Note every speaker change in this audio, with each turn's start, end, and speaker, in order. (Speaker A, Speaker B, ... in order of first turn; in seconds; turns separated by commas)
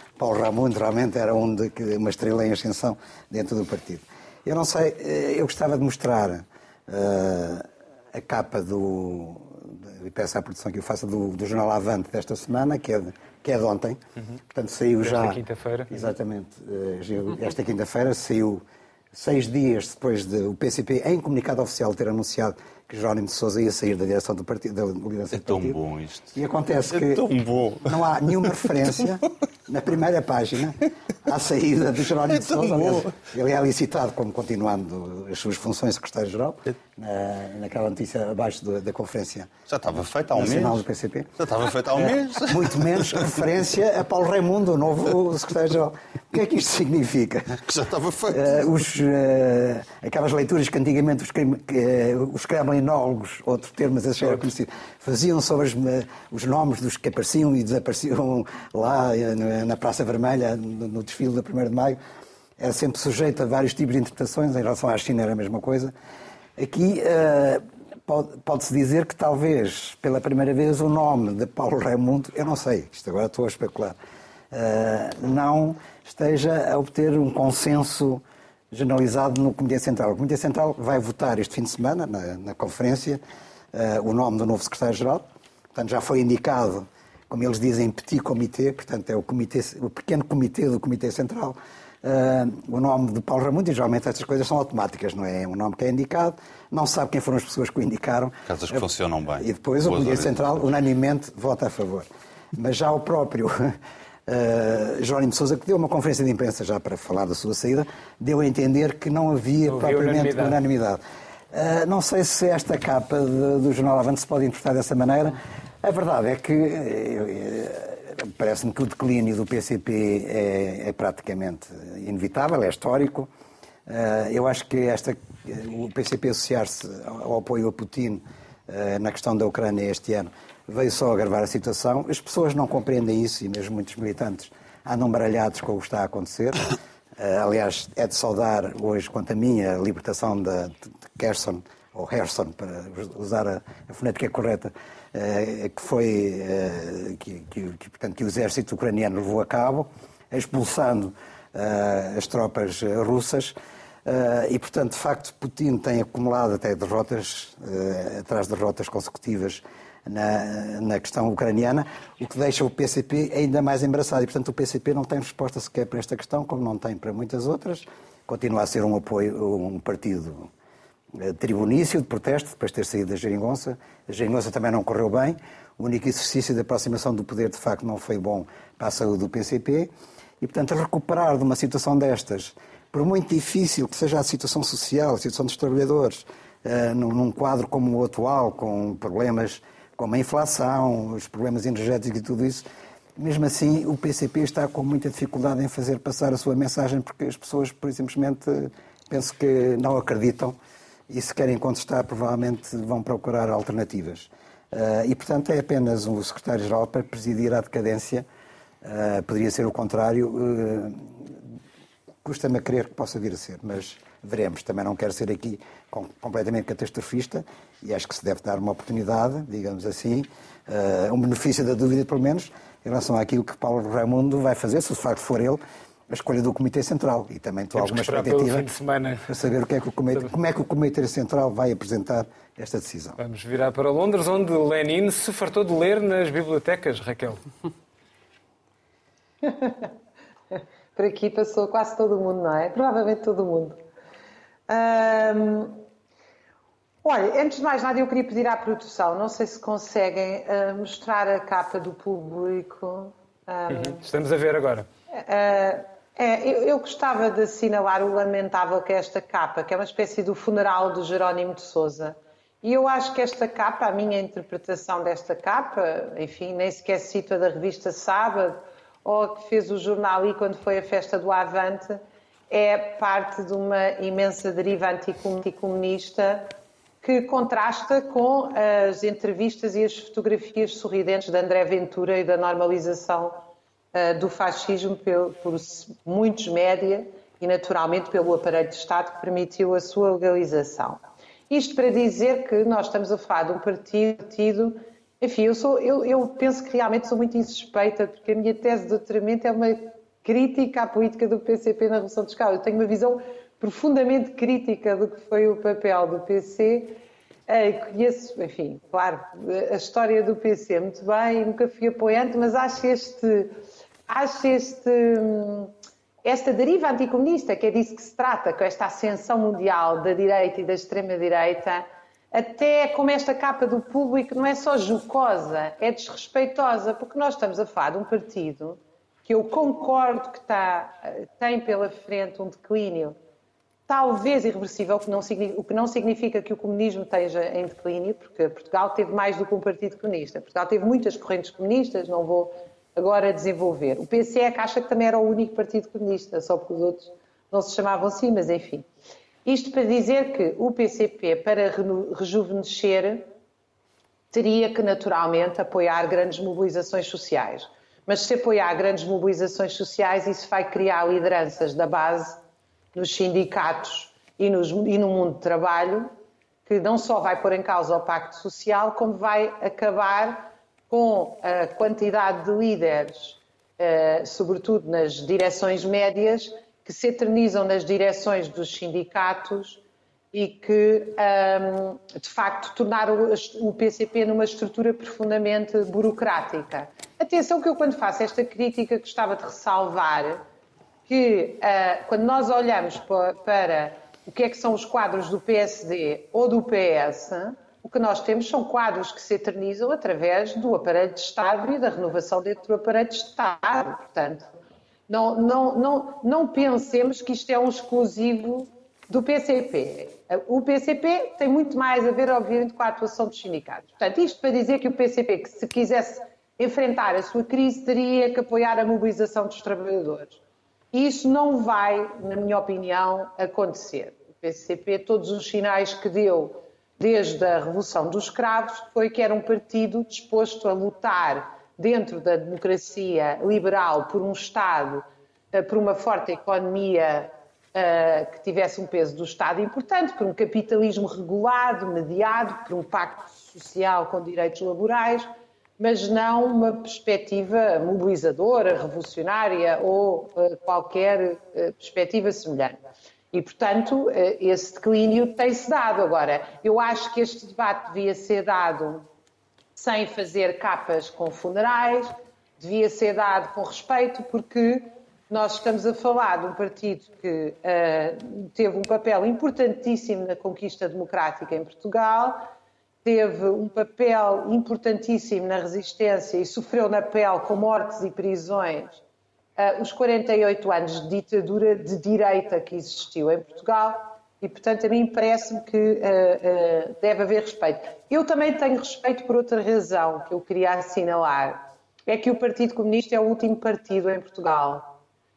Speaker A: 0.2-25.8, Speaker B: 15.0-16.0, Speaker C: 25.3-26.4, Speaker A: 26.4-27.3, Speaker C: 26.9-28.7, Speaker A: 27.8-39.5, Speaker C: 32.4-33.1, Speaker C: 39.7-40.8, Speaker A: 40.3-41.4, Speaker C: 41.4-43.3, Speaker A: 41.9-47.6, Speaker C: 47.6-48.6, Speaker A: 48.3-62.0, Speaker A: 62.6-65.9, Speaker A: 66.6-74.0, Speaker A: 74.5-83.2, Speaker A: 83.7-98.8, Speaker C: 98.5-100.6, Speaker A: 99.4-103.8, Speaker A: 104.3-111.0, Speaker B: 109.7-110.6, Speaker A: 111.5-123.3, Speaker A: 123.9-170.5, Speaker A: 171.2-179.9, Speaker A: 180.4-192.7, Speaker A: 193.2-200.6, Speaker A: 201.1-208.3, Speaker A: 208.8-211.4, Speaker A: 212.2-228.7, Speaker B: 227.8-229.3, Speaker A: 229.3-233.2, Speaker B: 233.2-237.4, Speaker D: 239.4-239.9, Speaker D: 240.5-243.8, Speaker D: 244.7-245.8, Speaker D: 247.0-254.0, Speaker B: 253.7-254.9, Speaker D: 255.1-313.5, Speaker D: 314.1-315.7, Speaker D: 316.2-333.2, Speaker D: 333.9-348.9, Speaker D: 349.4-353.3, Speaker D: 354.3-362.4, Speaker D: 362.9-366.1, Speaker D: 366.7-379.8, Speaker D: 380.3-390.4, Speaker D: 391.1-404.5, Speaker D: 405.1-420.4, Speaker D: 420.9-452.8, Speaker D: 453.3-459.1, Speaker D: 459.8-472.5, Speaker D: 473.0-479.0, Speaker D: 479.6-495.0